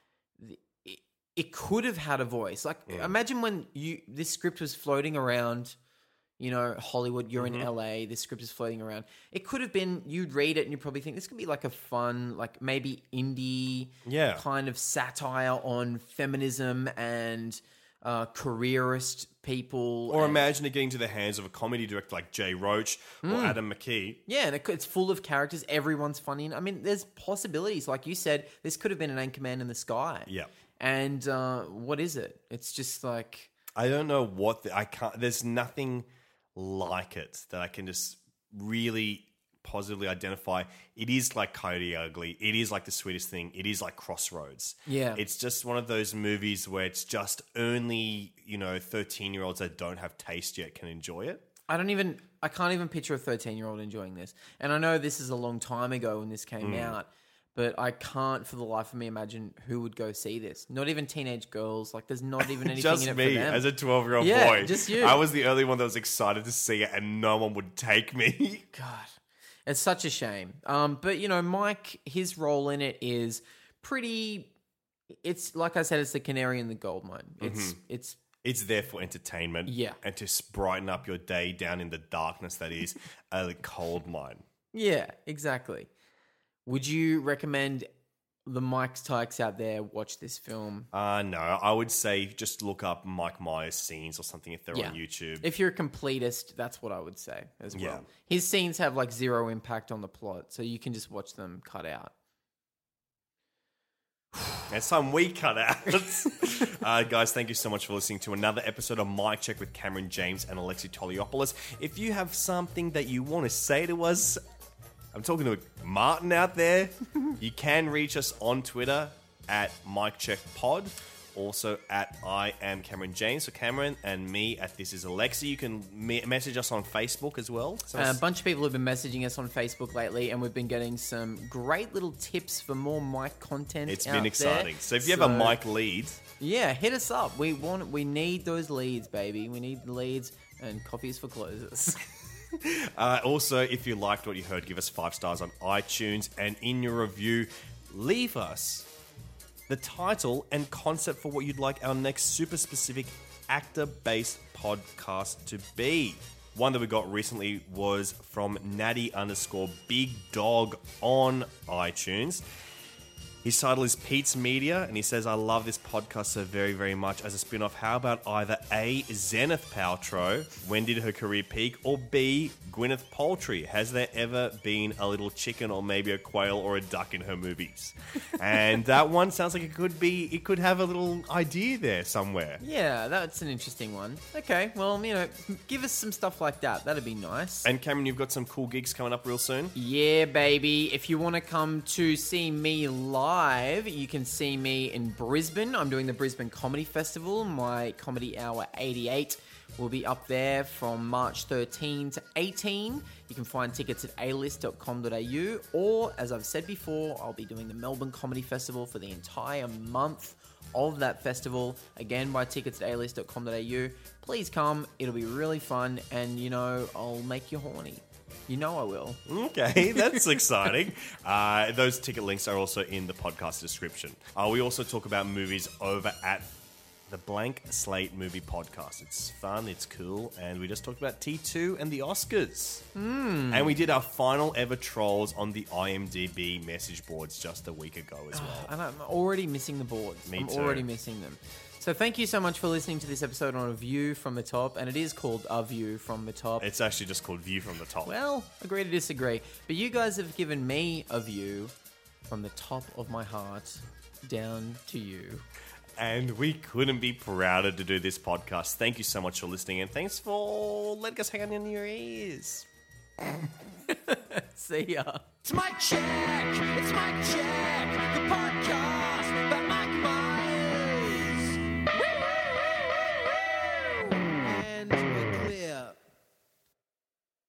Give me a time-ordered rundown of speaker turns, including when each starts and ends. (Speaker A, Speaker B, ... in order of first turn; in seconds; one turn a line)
Speaker A: 0.4-5.8
Speaker B: 2.9-3.1
Speaker A: 6.4-20.4
Speaker B: 7.4-7.7
Speaker B: 14.0-14.4
Speaker B: 20.1-24.2
Speaker A: 23.2-23.6
Speaker A: 24.3-33.5
Speaker B: 33.8-51.4
Speaker A: 44.9-45.2
Speaker A: 51.7-63.6
Speaker B: 56.6-57.0
Speaker B: 62.5-68.7
Speaker A: 64.2-65.2
Speaker A: 68.7-74.5
Speaker A: 75.2-78.2
Speaker B: 77.4-77.8
Speaker B: 78.4-84.4
Speaker A: 79.7-80.0
Speaker A: 84.7-85.9
Speaker A: 86.7-87.9
Speaker A: 88.5-90.9
Speaker B: 90.9-95.5
Speaker A: 94.7-102.1
Speaker B: 97.7-98.0
Speaker B: 104.7-114.4
Speaker B: 115.1-128.2
Speaker A: 127.9-135.6
Speaker B: 133.9-136.2
Speaker A: 136.4-142.0
Speaker B: 142.6-148.9
Speaker B: 149.7-162.4
Speaker B: 163.4-182.6
Speaker A: 182.6-187.7
Speaker B: 187.6-189.7
Speaker A: 189.7-219.2
Speaker B: 219.3-226.5
Speaker A: 219.9-220.2
Speaker B: 227.1-232.8
Speaker A: 232.9-233.8
Speaker B: 233.5-238.7
Speaker A: 238.3-246.7
Speaker B: 240.3-240.8
Speaker B: 246.6-248.1
Speaker A: 248.1-251.7
Speaker A: 252.3-255.4
Speaker B: 256.0-262.6
Speaker A: 263.9-265.2
Speaker C: 265.4-271.6
Speaker C: 272.1-276.0